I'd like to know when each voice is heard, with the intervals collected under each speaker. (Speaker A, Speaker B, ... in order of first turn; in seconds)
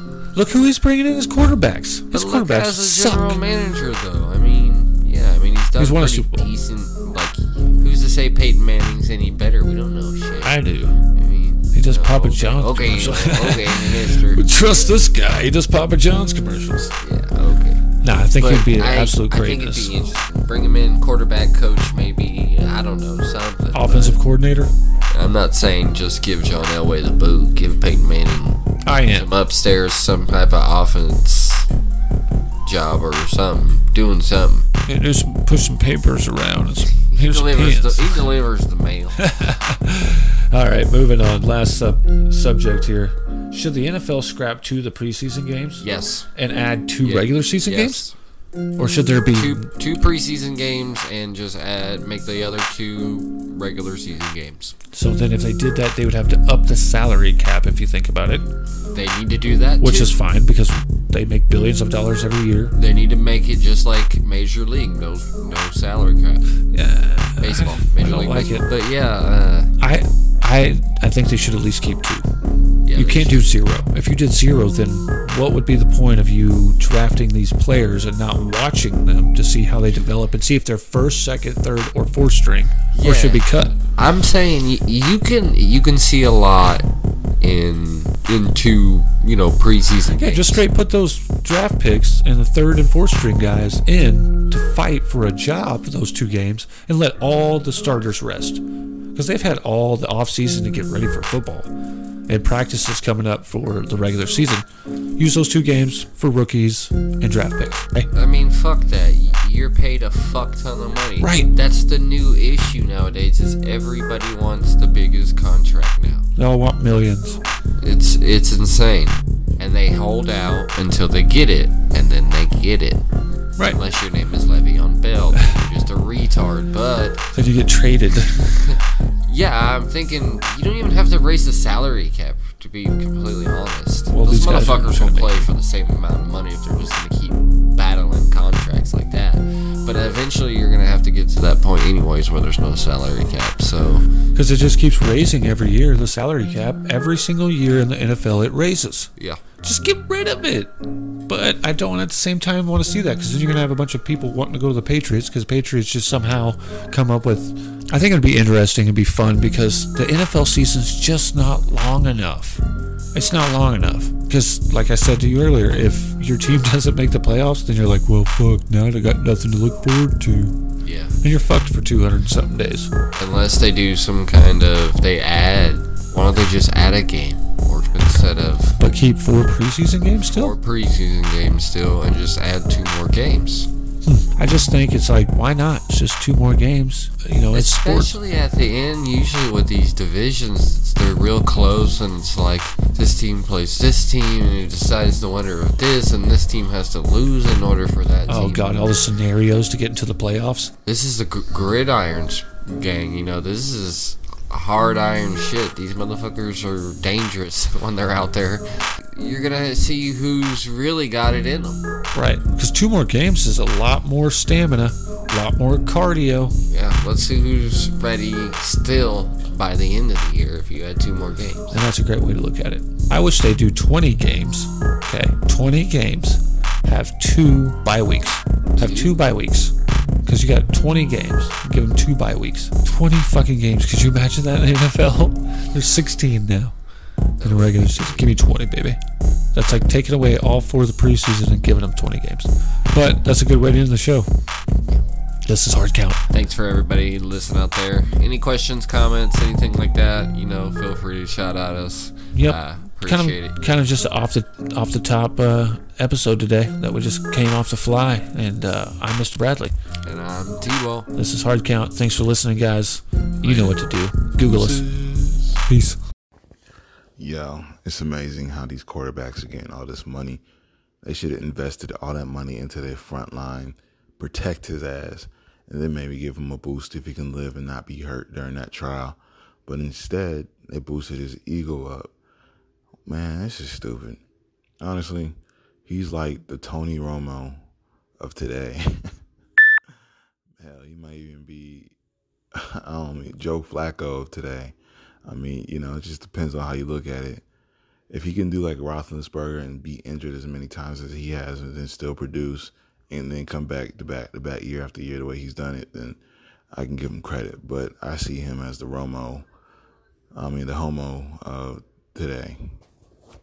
Speaker A: 0.3-3.4, 5.8-6.5, 10.4-11.0, 11.7-16.9, 18.0-19.9, 23.7-24.7, 28.8-29.3, 34.9-38.3, 39.2-45.8, 46.3-48.0, 48.8-49.7, 54.9-58.5, 59.8-62.7, 66.7-68.7, 69.8-72.3, 72.9-83.8, 90.1-98.6, 99.1-101.7, 102.3-104.7, 105.2-108.1, 111.2-111.5, 116.4-117.4, 127.3-128.7, 134.1-135.5, 144.3-149.1, 149.6-150.7, 151.3-162.6, 163.1-170.6, 171.2-172.9, 178.8-180.5, 184.1-188.2, 198.3-200.7, 212.1-216.5, 221.7-229.7, 230.2-236.7, 237.4-239.0, 239.5-244.3, 245.4-246.2, 252.3-259.7, 261.1-264.9, 265.7-266.0
Speaker B: 2.1-14.5, 17.0-17.8, 18.3-24.2, 25.1-31.7, 32.6-34.6, 37.0-39.5, 45.8-46.3, 47.0-48.1, 49.3-54.7, 58.9-60.2, 62.8-66.4, 67.4-69.7, 72.8-73.5, 82.9-86.8, 87.4-90.6, 108.1-116.3, 117.8-123.0, 123.6-127.2, 128.6-144.1, 149.2-149.4, 170.8-171.2, 173.2-178.8, 180.2-183.7, 187.5-198.9, 200.8-211.8, 216.7-221.8, 228.8-229.2, 237.4-238.3, 246.3-253.6, 260.1-261.1, 263.4-263.8
Speaker C: 264.4-265.6, 267.2-270.4, 271.0-282.1, 283.1-284.2, 284.8-287.6, 288.2-289.1, 290.6-291.9, 292.5-294.7, 295.2-297.4, 298.1-306.2, 306.7-309.5, 310.3-312.8